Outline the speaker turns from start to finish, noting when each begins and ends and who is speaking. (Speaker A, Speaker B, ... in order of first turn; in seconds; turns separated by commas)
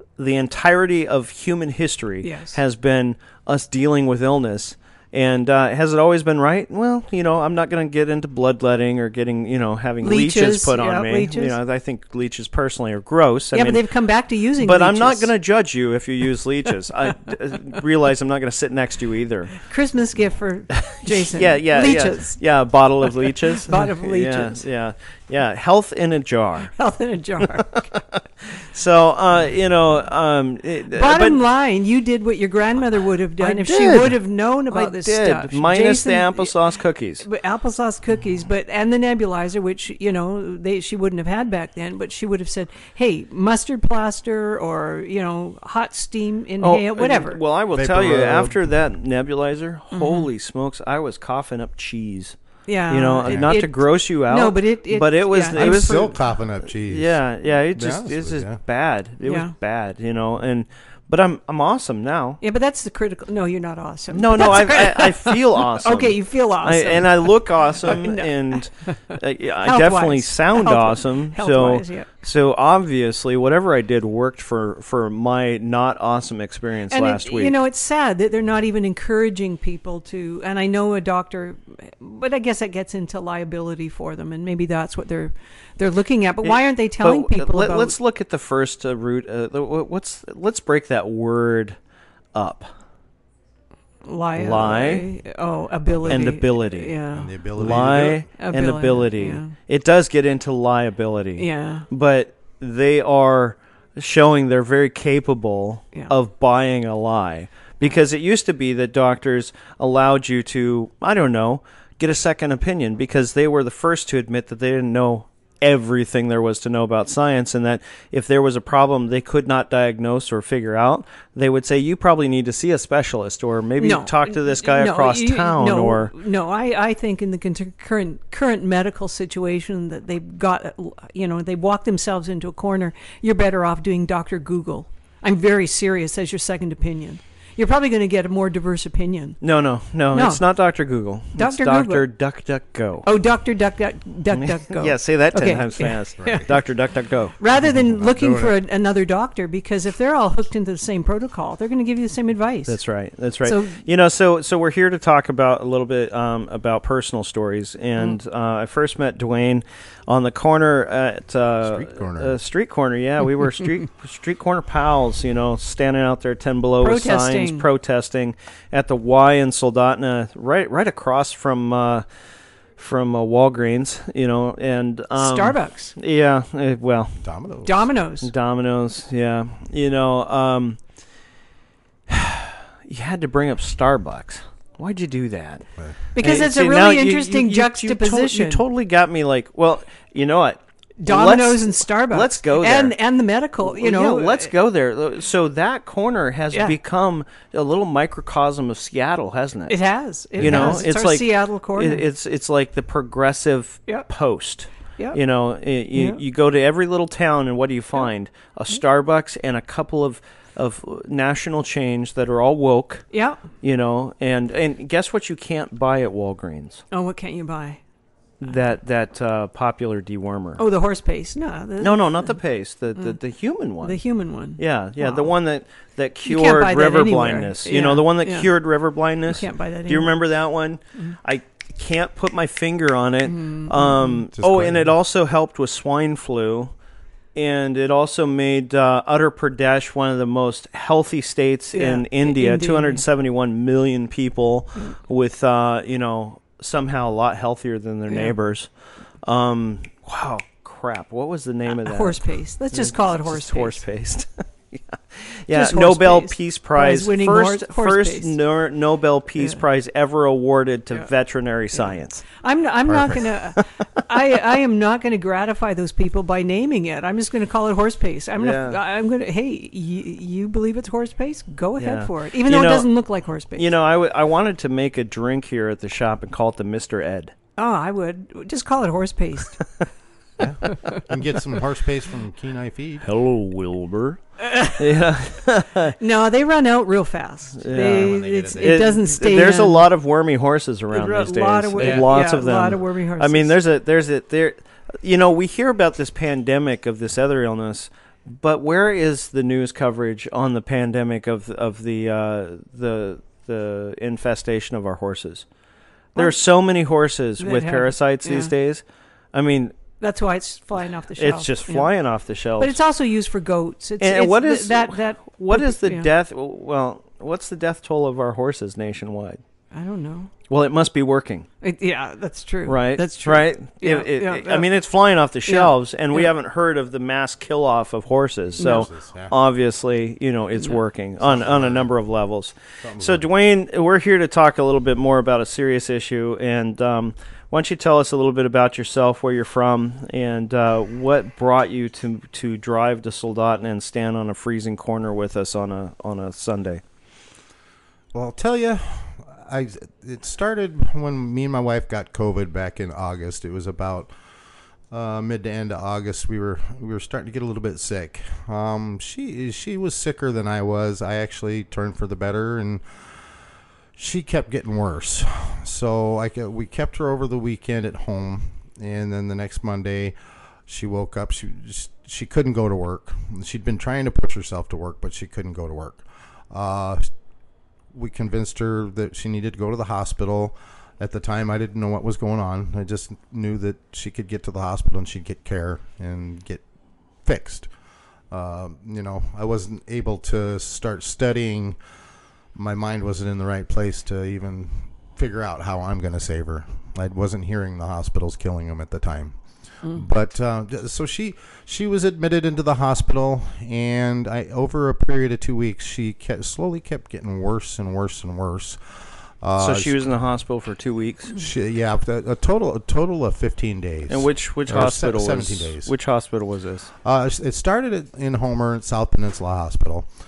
Speaker A: 0.2-13.9, Speaker B: 2.2-2.6, Speaker B: 10.0-11.6, Speaker B: 13.5-15.3, Speaker A: 14.6-19.7, Speaker B: 19.6-22.4, Speaker A: 20.8-26.8, Speaker B: 23.7-24.6, Speaker B: 26.8-27.9, Speaker A: 27.4-31.4, Speaker B: 30.9-36.5, Speaker A: 33.4-37.3, Speaker B: 37.2-47.4, Speaker A: 46.6-52.4, Speaker C: 47.7-48.7, Speaker B: 49.9-50.3, Speaker B: 52.7-56.1, Speaker A: 52.9-56.2, Speaker C: 53.2-53.5, Speaker C: 55.6-57.2, Speaker A: 56.7-62.4, Speaker C: 57.7-58.6, Speaker B: 59.2-59.5, Speaker B: 62.4-72.1, Speaker A: 64.1-77.5, Speaker B: 76.9-87.9, Speaker A: 86.4-91.8, Speaker A: 92.3-92.7, Speaker B: 94.0-97.3, Speaker A: 94.3-95.1, Speaker A: 96.0-97.0, Speaker C: 97.1-98.2, Speaker A: 97.6-126.1, Speaker B: 98.4-99.5, Speaker B: 101.4-101.9, Speaker B: 123.8-139.4, Speaker A: 139.4-143.1, Speaker B: 140.1-140.4, Speaker B: 141.4-142.0, Speaker B: 143.0-146.5, Speaker A: 144.3-147.3, Speaker C: 146.2-146.5, Speaker B: 147.4-152.8, Speaker C: 147.5-148.6, Speaker A: 152.7-172.0, Speaker B: 153.4-153.8, Speaker C: 161.6-162.3, Speaker B: 166.8-167.7, Speaker A: 172.8-177.3, Speaker B: 175.2-175.9, Speaker C: 177.2-177.8, Speaker B: 177.7-178.3, Speaker A: 178.2-180.8, Speaker A: 182.1-185.7, Speaker B: 186.2-188.6, Speaker A: 186.2-192.9, Speaker B: 191.0-194.5, Speaker A: 193.6-199.8, Speaker B: 199.7-202.0, Speaker A: 200.4-213.1, Speaker C: 200.4-200.8, Speaker B: 205.9-206.2, Speaker B: 213.1-213.4, Speaker A: 213.6-216.8, Speaker B: 216.9-217.8, Speaker A: 218.4-220.6, Speaker B: 220.6-222.4, Speaker A: 221.8-224.0, Speaker B: 223.8-225.3, Speaker A: 224.6-236.7, Speaker B: 226.2-228.5, Speaker B: 229.3-230.1, Speaker B: 233.3-234.2, Speaker C: 234.4-234.9, Speaker A: 237.3-248.7, Speaker B: 241.7-243.0, Speaker B: 248.1-248.3, Speaker A: 249.2-262.2, Speaker B: 251.7-253.8, Speaker B: 255.5-258.3, Speaker B: 261.7-273.7, Speaker C: 262.9-263.2, Speaker A: 268.4-268.8, Speaker A: 271.8-272.9, Speaker A: 273.6-277.3, Speaker B: 277.6-279.6, Speaker C: 280.4-283.1, Speaker B: 284.4-284.9, Speaker A: 284.8-285.9, Speaker B: 286.0-289.9, Speaker A: 287.6-305.5, Speaker C: 287.8-288.8, Speaker B: 290.9-293.5, Speaker A: 306.1-309.8, Speaker B: 307.4-308.5, Speaker B: 310.0-311.9, Speaker A: 311.2-312.8, Speaker B: 312.6-316.1, Speaker A: 314.0-319.4, Speaker B: 319.7-320.3, Speaker A: 320.5-321.5, Speaker B: 321.6-324.7, Speaker A: 322.7-346.8, Speaker B: 325.5-326.3, Speaker B: 328.6-328.9, Speaker C: 328.6-329.3, Speaker C: 331.2-331.9, Speaker C: 332.8-333.2, Speaker C: 348.1-354.1, Speaker C: 354.9-363.1, Speaker C: 364.0-370.2, Speaker C: 370.7-377.1, Speaker C: 377.9-386.6, Speaker C: 387.2-387.7, Speaker C: 388.3-391.8, Speaker C: 392.5-410.1, Speaker A: 409.6-411.4, Speaker C: 411.4-415.9, Speaker A: 414.1-416.9, Speaker C: 417.0-420.1